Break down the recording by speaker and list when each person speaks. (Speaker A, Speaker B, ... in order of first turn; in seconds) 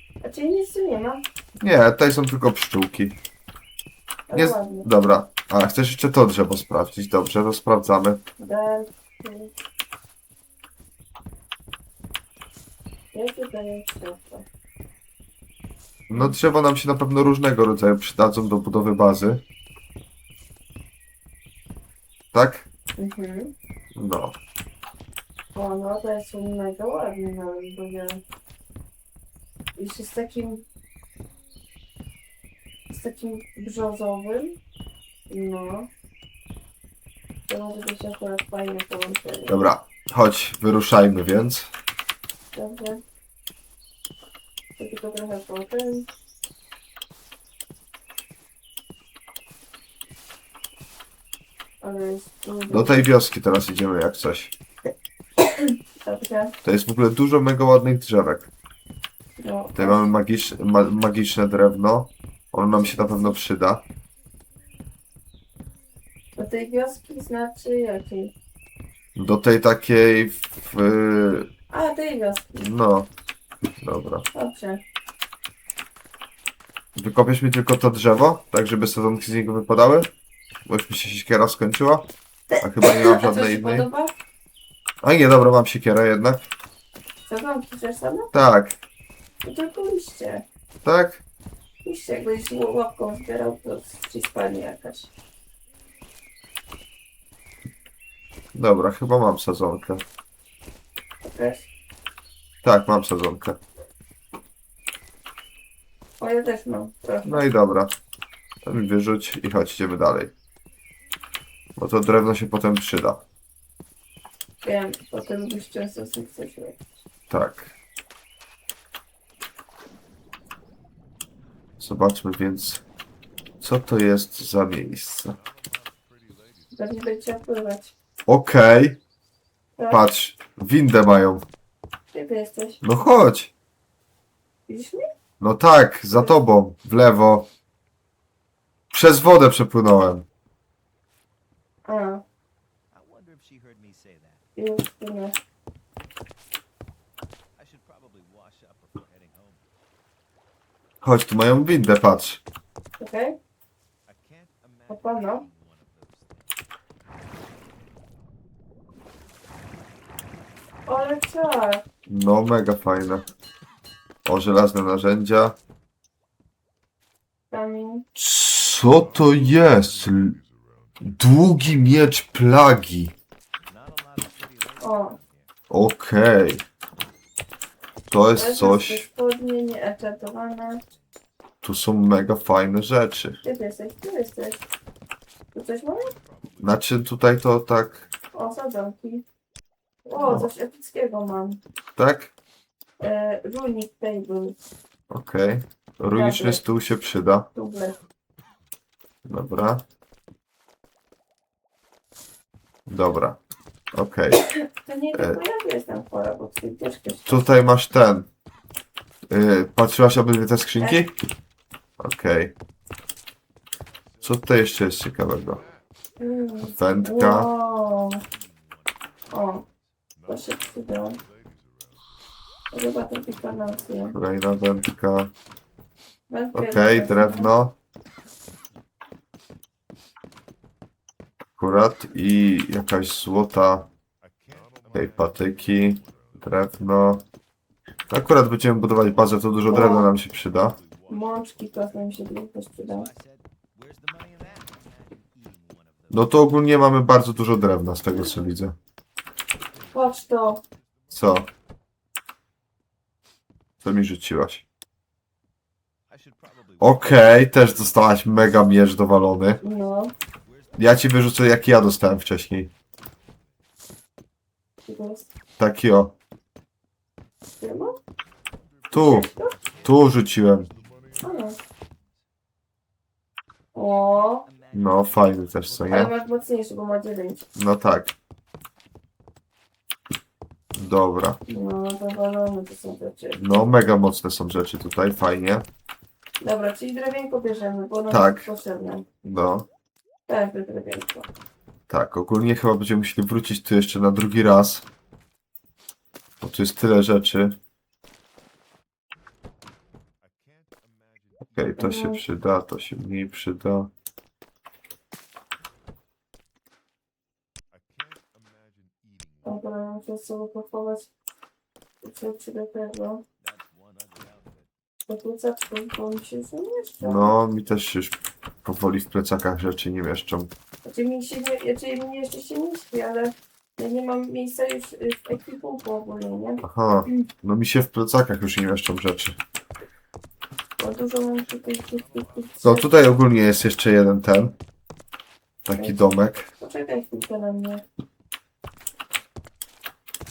Speaker A: 0.2-1.2, 4.3-4.9, 8.4-9.5, 13.1-14.4, 23.0-23.5, 25.5-28.2, 29.8-30.6, 32.9-34.6, 35.3-35.9, 37.5-39.6, 42.5-43.0, 44.8-46.1, 51.8-53.0, 55.5-56.5, 59.4-60.0, 62.8-63.4, 66.3-68.3, 71.7-72.7, 74.3-74.8, 82.5-84.1, 87.3-88.3, 89.4-90.4, 91.8-95.1, 101.2-101.7, 106.2-107.5, 114.6-116.8, 126.7-127.9, 129.8-130.0, 132.1-132.8, 134.7-135.1, 141.8-142.2, 144.6-145.4, 153.0-153.3, 154.9-155.4, 160.8-161.8, 167.5-168.1, 174.8-175.2, 178.3-180.8, 183.4-184.7, 185.5-186.1, 188.3-189.2, 190.1-191.6, 193.0-194.6, 196.1-196.6, 197.5-198.0, 204.8-207.4, 216.2-218.2, 219.3-219.6, 220.3-221.2, 222.7-224.1, 226.3-227.5, 239.7-240.1, 241.1-243.1, 249.9-250.6, 259.6-260.1, 264.9-265.3, 267.6-268.0, 269.0-269.6, 271.2-271.6, 273.7-274.5, 275.8-277.4, 281.5-283.5, 286.4-289.1, 290.3-291.3, 301.8-302.2, 309.4-311.1, 312.0-313.2, 315.1-317.3, 320.8-327.2, 330.8-333.1, 335.8-337.8
Speaker B: 1.6-3.2, 4.3-8.2, 16.1-19.4, 22.3-22.7, 23.9-24.4, 39.5-41.7, 52.7-54.5, 56.6-58.5, 59.7-63.8, 69.2-71.5, 72.6-73.1, 73.8-74.2, 77.0-80.1, 80.7-82.1, 82.6-83.9, 85.0-86.5, 88.3-88.8, 90.8-91.2, 98.5-100.0, 102.6-103.6, 107.2-107.9, 108.6-110.3, 111.8-113.2, 117.3-117.7, 121.8-122.8, 123.6-125.4, 128.3-129.0, 129.9-131.4, 132.8-133.5, 135.4-137.5, 138.9-140.2, 151.0-152.4, 162.1-163.3, 164.2-165.6, 168.2-170.3, 171.0-173.1, 175.7-176.6, 178.1-179.1, 181.6-183.4, 186.6-188.0, 190.2-190.5, 191.9-192.3, 195.1-197.5, 199.2-199.8, 202.9-203.4, 203.9-204.4, 205.1-205.4, 207.2-208.3, 209.3-211.1, 212.0-212.5, 214.2-215.6, 216.6-217.5, 224.1-225.3, 226.5-227.7, 231.6-233.9, 234.9-237.2, 238.1-240.8, 246.1-248.8, 251.1-251.5, 253.8-254.6, 256.8-259.6, 260.8-262.7, 265.6-266.1, 268.9-269.3, 269.8-270.7, 274.7-276.1, 277.6-278.1, 280.7-281.4, 283.4-285.7, 288.1-288.5, 289.2-289.6, 291.9-294.8, 296.4-297.6, 301.5-303.9, 317.0-320.5, 326.6-329.4, 332.6-334.6, 335.6-336.5
Speaker C: 125.5-126.7, 142.9-144.4, 147.6-149.7, 154.1-156.5, 169.0-170.3, 173.7-175.5, 186.1-186.8, 218.2-219.3, 220.2-221.6, 234.4-236.4, 240.3-242.1, 242.8-246.3, 249.6-251.5, 256.1-257.2, 260.4-261.0, 269.4-271.6, 274.4-276.1, 300.3-301.5, 307.9-309.6, 313.4-314.7, 332.0-332.6